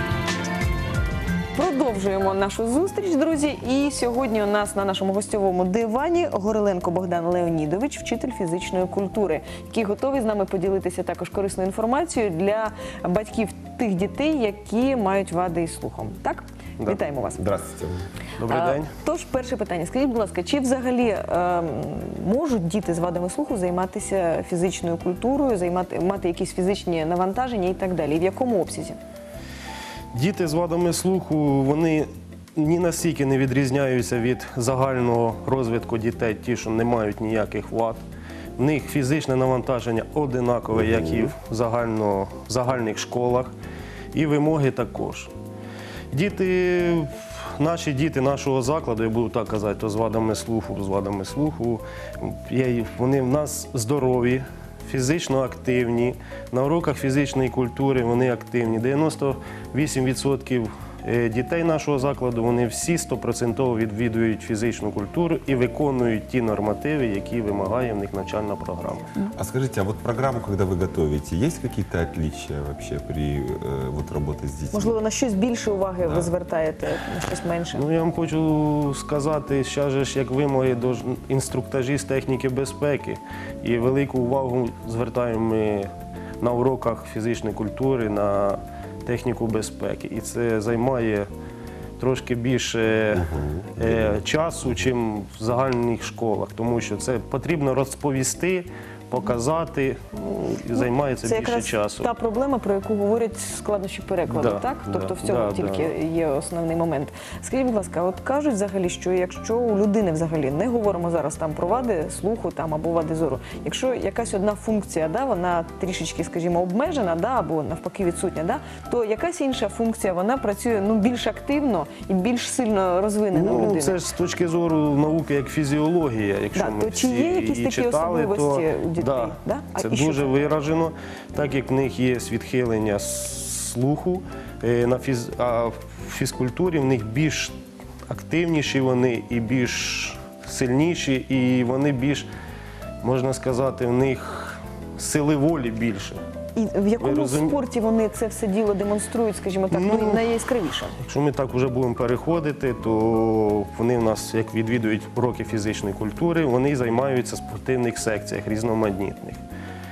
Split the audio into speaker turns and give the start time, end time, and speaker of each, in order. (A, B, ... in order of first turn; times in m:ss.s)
0:01.5-0:17.4 A
0:17.4-0:18.1 B
0:18.4-0:18.9 C
0:18.7-0:29.0 A
0:30.1-0:38.0 C
0:38.6-0:43.5 C
0:40.7-0:41.3 B
0:44.1-0:45.3 C
0:46.1-1:09.1 C
1:09.3-1:15.0 B
1:14.7-1:17.8 A
1:16.0-1:16.3 B
1:17.7-1:31.3 C
1:32.0-1:42.1 C
1:33.1-1:34.2 B
1:40.7-2:04.0 A
1:44.3-1:45.9 C
2:03.3-2:17.6 C
2:06.5-2:10.3 A
2:18.1-2:22.3 C
2:23.0-2:26.2 C
2:26.5-2:31.0 A
2:27.0-2:27.6 C
2:29.7-2:30.3 C
2:31.0-2:39.4 C